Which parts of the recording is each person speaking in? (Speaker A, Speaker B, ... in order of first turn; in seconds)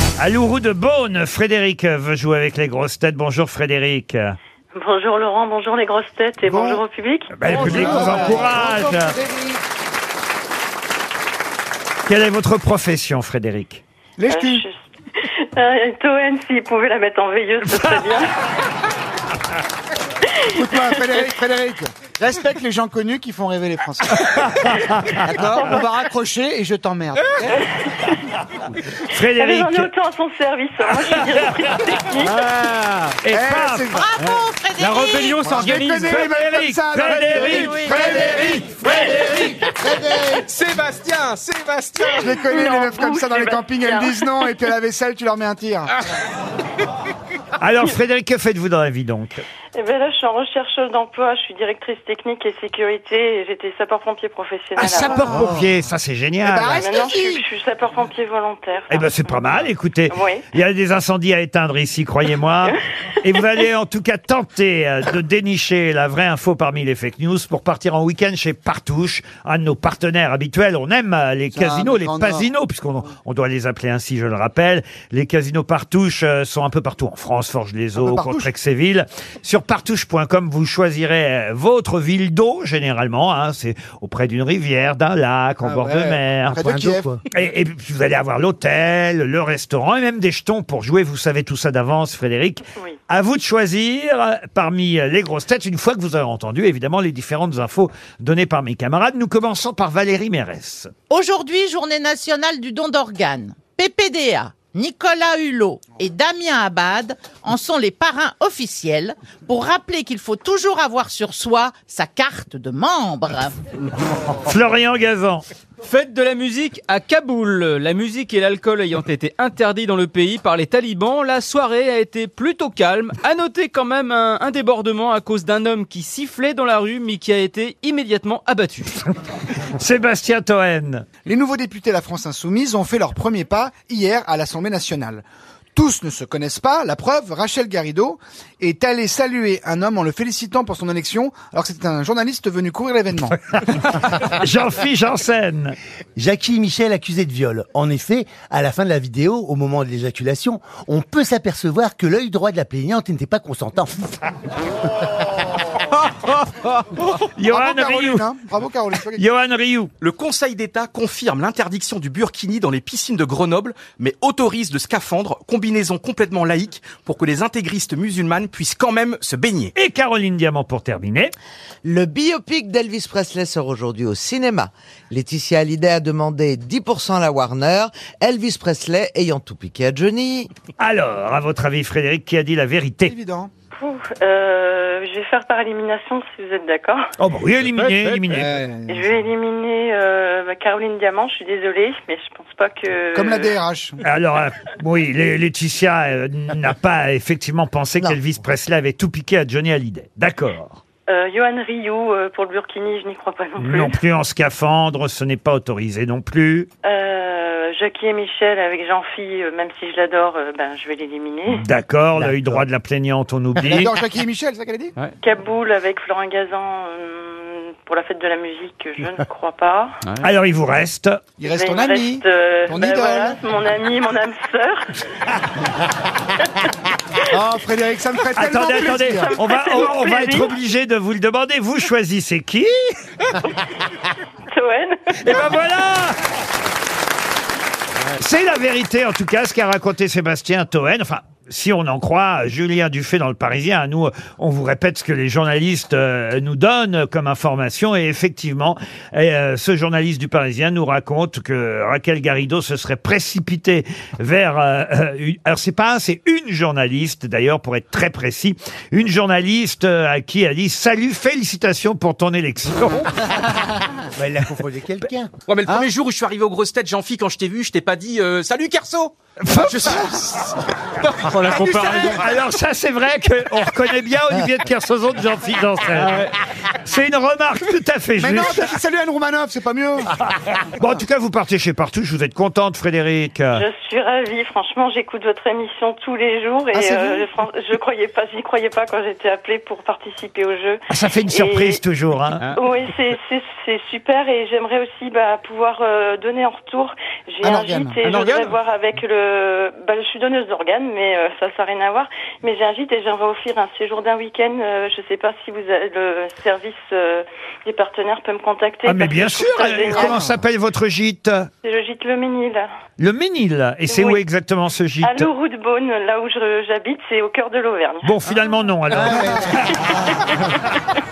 Speaker A: 0.2-4.4, 7.3-9.2, 12.1-13.8, 24.4-25.3, 29.1-29.9, 33.2-34.0, 35.5-39.7, 47.6-49.4, 54.8-56.9, 58.9-86.7, 87.3-100.9, 114.5-115.5, 129.6-131.1, 143.7-145.8, 157.4-158.3, 159.1-159.9, 169.8-171.3, 180.8-183.1, 187.2-188.6, 194.0-200.8, 203.6-206.7, 211.5-213.9, 220.2-221.2, 228.4-232.8, 235.2-236.2, 238.2-263.5, 269.4-270.1, 271.8-278.7, 280.2-283.6, 290.9-292.5, 308.9-311.5, 313.0-315.3, 318.0-319.9
Speaker B: 4.8-7.8, 14.3-18.4, 27.6-28.3, 29.1-32.4, 42.1-44.5, 49.8-55.3, 56.8-59.2, 60.1-60.5, 183.8-187.1, 188.9-193.5, 201.1-204.0, 206.8-211.6, 215.2-220.0, 221.5-225.0, 229.2-230.5, 234.5-235.5, 283.6-291.8, 292.5-310.3, 311.6-312.7, 313.9-314.2, 315.0-318.1
Speaker C: 6.5-6.8, 7.5-9.5, 14.2-14.7, 20.5-27.6, 33.3-34.1, 35.4-38.6, 39.8-40.5, 42.0-45.9, 54.9-55.6, 56.4-57.4, 71.5-72.5, 78.0-78.5, 85.6-87.1, 131.2-143.4, 157.5-159.2, 183.1-183.5, 188.3-189.1, 193.1-194.0, 213.6-214.9, 221.4-223.4, 227.3-229.3, 269.8-270.2, 271.4-272.2, 278.2-280.1, 286.7-287.3, 297.4-298.0, 309.9-310.2
Speaker D: 32.4-33.2, 34.2-36.3, 115.8-129.0, 271.4-272.1, 275.9-276.3
Speaker E: 33.9-35.5, 37.2-38.0, 101.1-113.5
Speaker F: 40.5-42.0, 160.0-169.7, 265.5-271.5, 298.0-298.5
Speaker G: 86.5-87.2, 146.2-154.2, 212.2-212.6, 264.1-265.3, 318.9-319.6
Speaker H: 171.8-180.5